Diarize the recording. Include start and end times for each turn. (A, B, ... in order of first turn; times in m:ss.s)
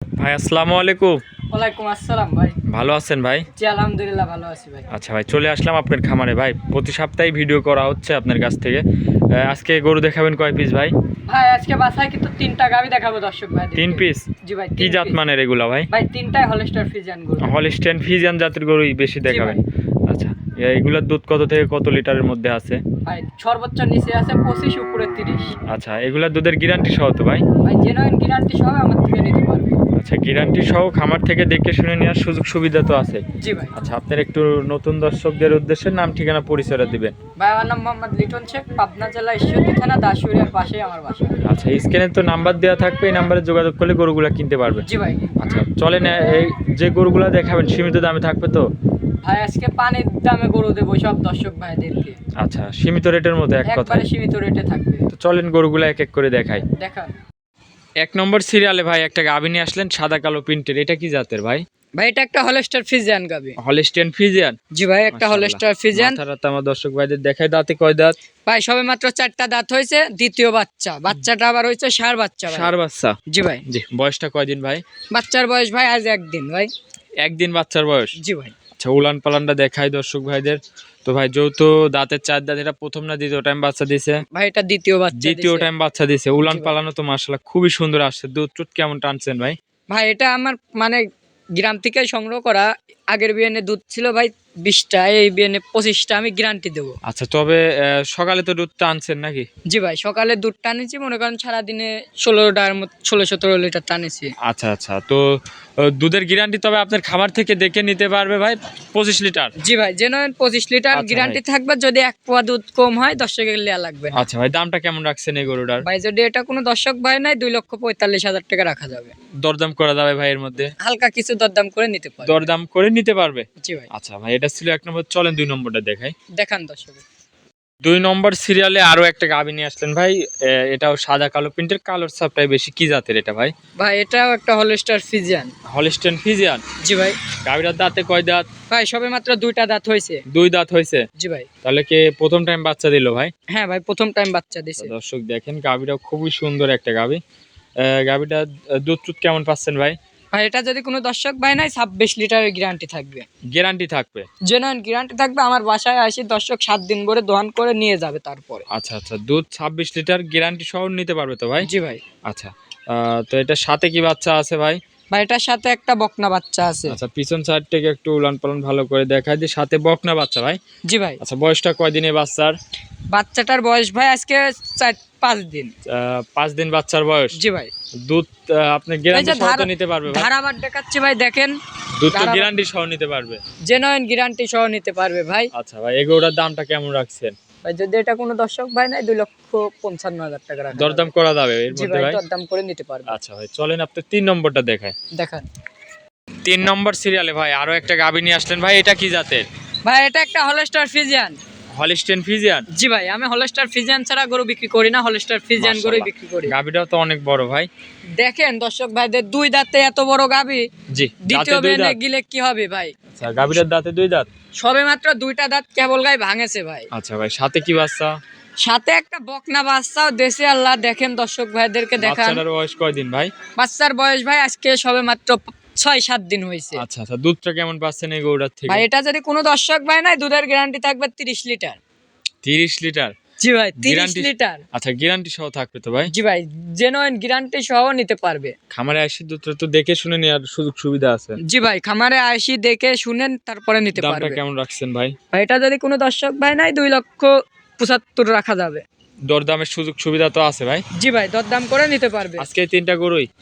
0:00.2-0:01.2 A
0:01.5-0:02.6 B
0:02.7-0:03.5 A
0:03.6-0:04.9 B
0:04.9-0:10.9 A
0:11.3-0:15.2 B
0:13.8-0:15.9 A
0:15.9-0:17.5 B
0:17.4-0:22.8 A
0:19.2-0:19.6 B
0:23.0-0:25.6 B
0:25.6-0:27.4 A
0:27.6-0:29.8 B
0:29.9-0:33.2 A
0:33.4-0:33.8 B
0:33.7-0:37.1 A
0:37.4-0:41.4 B
0:41.4-0:44.8 A
0:44.8-0:45.4 B
0:45.4-0:48.7 A
0:49.2-0:52.2 B
0:52.4-0:54.0 A
0:53.6-0:55.1 B
0:55.1-0:56.6 A
0:56.8-0:57.1 B
0:58.0-1:01.6 A
1:02.0-1:03.6 B
1:03.6-1:04.6 A
1:04.7-1:06.2 B
1:05.1-1:08.2 A
1:08.5-1:12.7 B
1:12.5-1:14.8 A
1:13.3-1:13.6 B
1:15.1-1:16.7 B
1:17.2-1:18.1 A
1:18.2-1:18.5 B
1:18.8-1:24.2 A
1:24.3-1:25.7 B
1:25.1-1:29.6 A
1:26.4-1:26.7 B
1:29.9-1:31.0 B
1:31.6-1:37.0 B
1:37.0-1:39.4 A
1:39.7-1:44.3 B
1:44.4-1:49.5 A
1:49.6-1:54.2 B
1:50.9-1:51.4 A
1:54.1-1:55.8 A
1:55.8-1:59.1 B
1:59.4-2:00.7 A
2:00.8-2:02.5 B
2:02.2-2:06.1 A
2:03.6-2:03.9 B
2:06.3-2:07.0 B
2:07.8-2:13.5 A
2:13.8-2:15.5 B
2:15.7-2:16.6 A
2:16.8-2:17.2 B
2:17.4-2:18.5 A
2:18.7-2:20.2 B
2:20.3-2:21.0 A
2:21.2-2:21.5 B
2:21.6-2:23.3 A
2:23.5-2:24.9 B
2:24.8-2:27.2 A
2:27.8-2:30.0 A
2:30.3-2:33.2 B
2:33.5-2:34.3 A
2:34.4-2:38.6 B
2:38.7-2:41.7 A
2:41.6-2:42.0 B
2:42.2-2:44.8 A
2:45.1-2:47.0 B
2:46.9-2:50.6 A
2:50.9-2:51.2 B
2:51.2-2:52.5 A
2:53.1-2:55.7 B
2:55.8-2:57.4 A
2:57.3-2:57.7 B
2:58.0-3:00.3 A
2:59.1-3:01.5 B
3:02.0-3:03.4 A
3:02.1-3:02.5 B
3:03.6-3:05.5 B
3:05.5-3:07.3 A
3:07.6-3:11.1 B
3:10.7-3:12.2 A
3:11.7-3:13.1 B
3:13.1-3:14.9 A
3:15.1-3:15.4 B
3:16.4-3:19.4 A
3:19.8-3:21.4 B
3:21.7-3:22.6 A
3:22.7-3:26.5 B
3:25.6-3:27.7 A
3:28.2-3:30.6 B
3:30.9-3:32.0 A
3:31.2-3:33.2 B
3:33.1-3:34.3 A
3:34.6-3:36.9 B
3:36.9-3:38.2 A
3:38.6-3:42.4 B
3:42.0-3:43.3 A
3:43.6-3:46.8 B
3:46.8-3:48.8 A
3:48.7-3:51.8 B
3:52.4-3:53.1 A
3:53.4-3:54.6 B
3:53.8-3:56.1 A
3:56.1-3:58.5 B
3:58.7-4:01.4 A
4:01.4-4:04.4 B
4:03.9-4:05.2 A
4:05.3-4:08.8 B
4:09.3-4:10.8 A
4:10.9-4:12.5 B
4:12.4-4:13.3 A